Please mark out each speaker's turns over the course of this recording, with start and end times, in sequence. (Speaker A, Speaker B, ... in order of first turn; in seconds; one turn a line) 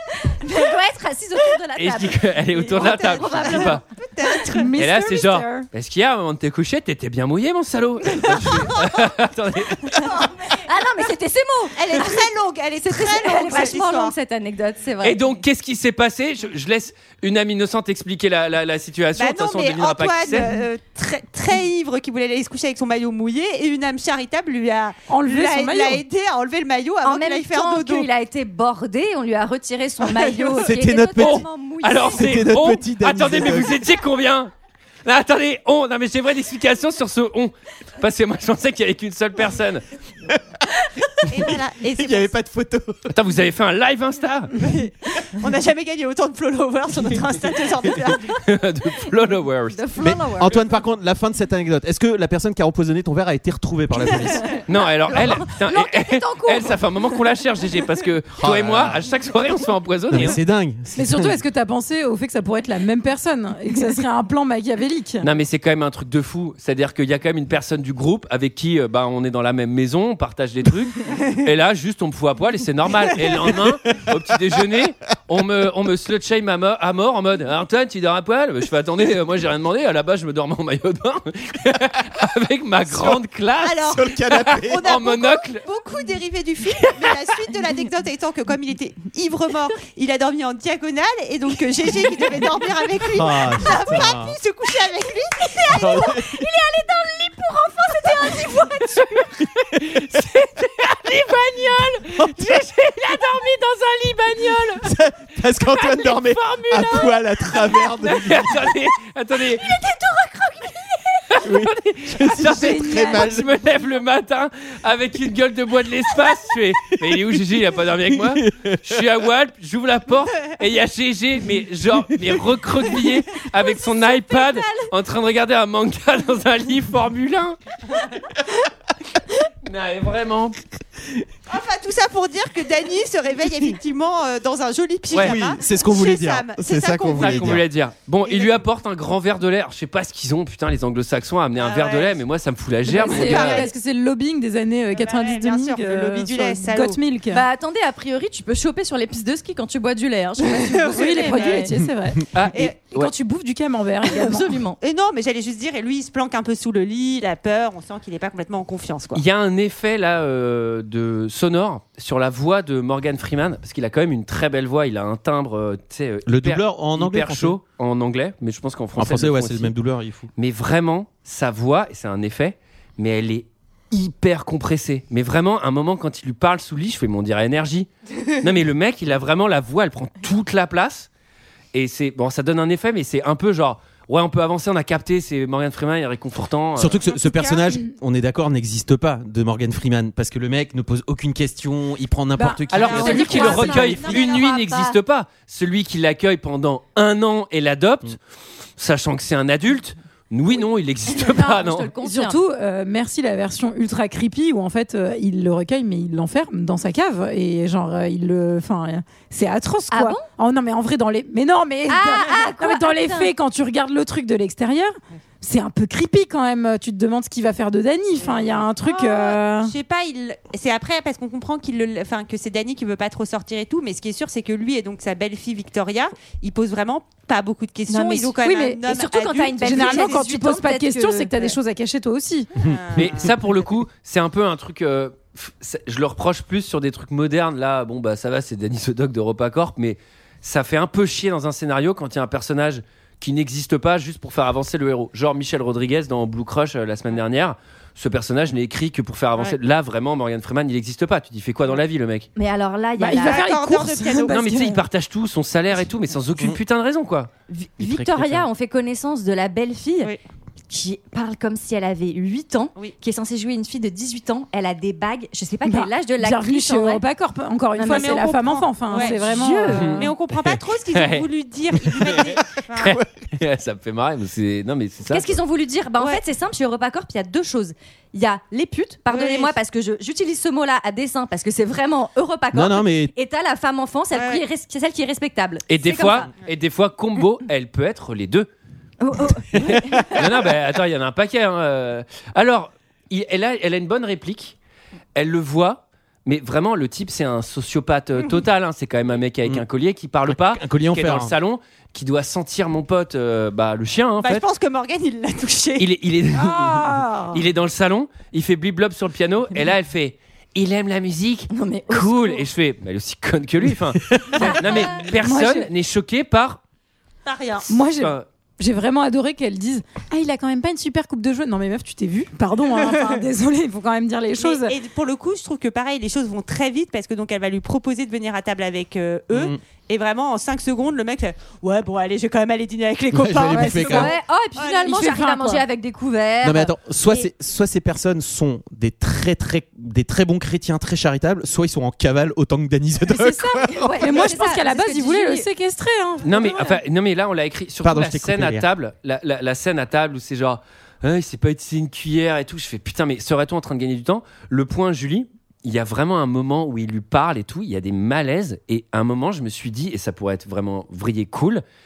Speaker A: 0.2-3.8
Speaker B: 1.8-3.8
Speaker C: 2.7-4.8
Speaker D: 4.5-5.7
Speaker B: 4.8-10.1
Speaker A: 10.0-15.2
Speaker C: 11.8-14.1
Speaker B: 15.0-20.5
Speaker C: 19.1-28.1
Speaker D: 25.1-26.0
Speaker A: 27.0-32.3
Speaker C: 30.1-30.6
Speaker E: 30.6-31.5
Speaker B: 31.2-34.5
Speaker E: 32.1-33.8
Speaker B: 35.0-39.8
Speaker C: 41.3-42.4
Speaker E: 41.4-43.2
Speaker B: 43.1-44.5
Speaker C: 44.6-48.4
Speaker B: 48.2-49.9
Speaker A: 49.7-50.5
Speaker E: 50.0-54.5
Speaker A: 54.1-56.8
Speaker B: 54.7-60.4
Speaker E: 58.4-59.0
Speaker E: 60.1-61.4
Speaker D: 61.0-65.2
Speaker B: 65.2-85.7
Speaker E: 73.2-74.1
Speaker E: 82.9-83.2
Speaker C: 83.6-96.2
Speaker E: 83.9-84.9
Speaker E: 93.1-94.4
Speaker E: 95.7-96.5
Speaker A: 95.8-99.2
Speaker B: 99.6-104.8
Speaker E: 102.2-102.6
Speaker E: 104.8-108.7
Speaker B: 105.8-109.8
Speaker A: 109.5-111.2
Speaker B: 111.3-127.6
Speaker E: 111.4-113.5
Speaker D: 112.4-113.3
Speaker E: 118.1-119.0
Speaker A: 123.6-124.9
Speaker B: 129.7-130.6
Speaker C: 131.5-137.6
Speaker B: 135.1-135.4
Speaker E: 135.2-137.6
Speaker B: 137.1-143.7
Speaker C: 138.3-138.5
Speaker C: 141.6-142.2
Speaker D: 142.9-147.4
Speaker C: 143.1-143.7
Speaker C: 144.9-147.0
Speaker A: 147.3-151.7
Speaker D: 150.9-152.3
Speaker C: 151.0-151.7
Speaker B: 152.3-153.1
Speaker D: 152.8-154.6
Speaker A: 154.0-154.8
Speaker C: 154.8-159.2
Speaker B: 159.1-169.7
Speaker E: 166.3-167.6
Speaker E: 169.0-170.3
Speaker B: 170.4-181.1
Speaker B: 181.7-187.0
Speaker E: 186.8-193.9
Speaker C: 187.0-187.7
Speaker D: 192.4-194.4
Speaker B: 192.7-198.2
Speaker A: 192.8-195.0
Speaker B: 198.8-201.9
Speaker A: 201.1-202.4
Speaker D: 202.0-219.7
Speaker A: 209.9-210.2
Speaker A: 211.9-213.3
Speaker C: 218.2-230.2
Speaker A: 227.9-231.6
Speaker D: 229.6-232.5
Speaker C: 232.6-233.3
Speaker B: 232.9-252.3
Speaker A: 252.3-253.5
Speaker D: 253.0-254.8
Speaker C: 253.2-254.5
Speaker B: 254.3-258.5
Speaker A: 257.5-260.1
Speaker A: 260.7-267.0
Speaker D: 265.6-270.1
Speaker A: 267.8-270.0
Speaker C: 267.8-269.4
Speaker B: 269.7-270.1
Speaker C: 269.9-273.0
Speaker B: 270.9-271.3
Speaker E: 271.8-273.3
Speaker B: 272.8-275.4
Speaker A: 275.1-286.3
Speaker C: 279.1-279.5
Speaker E: 282.5-283.1
Speaker C: 284.1-284.4
Speaker B: 285.7-288.5
Speaker A: 289.0-290.1
Speaker E: 289.6-290.2
Speaker B: 290.0-294.6
Speaker B: 295.1-304.5
Speaker E: 300.3-301.3
Speaker C: 304.2-305.9
Speaker B: 305.8-316.6
Speaker D: 306.4-307.4
Speaker A: 311.5-312.4
Speaker E: 314.1-314.4
Speaker A: 314.6-315.0
Speaker D: 315.1-315.7
Speaker C: 317.2-317.7
Speaker D: 317.7-324.8
Speaker B: 318.0-318.2
Speaker C: 322.8-323.1
Speaker C: 324.4-335.0
Speaker E: 329.3-329.6
Speaker E: 333.1-334.1
Speaker D: 333.5-334.0
Speaker A: 333.8-337.3
Speaker D: 334.9-335.6
Speaker E: 336.4-344.3
Speaker D: 343.1-346.7
Speaker A: 343.6-345.5
Speaker B: 346.2-361.6
Speaker E: 347.8-348.7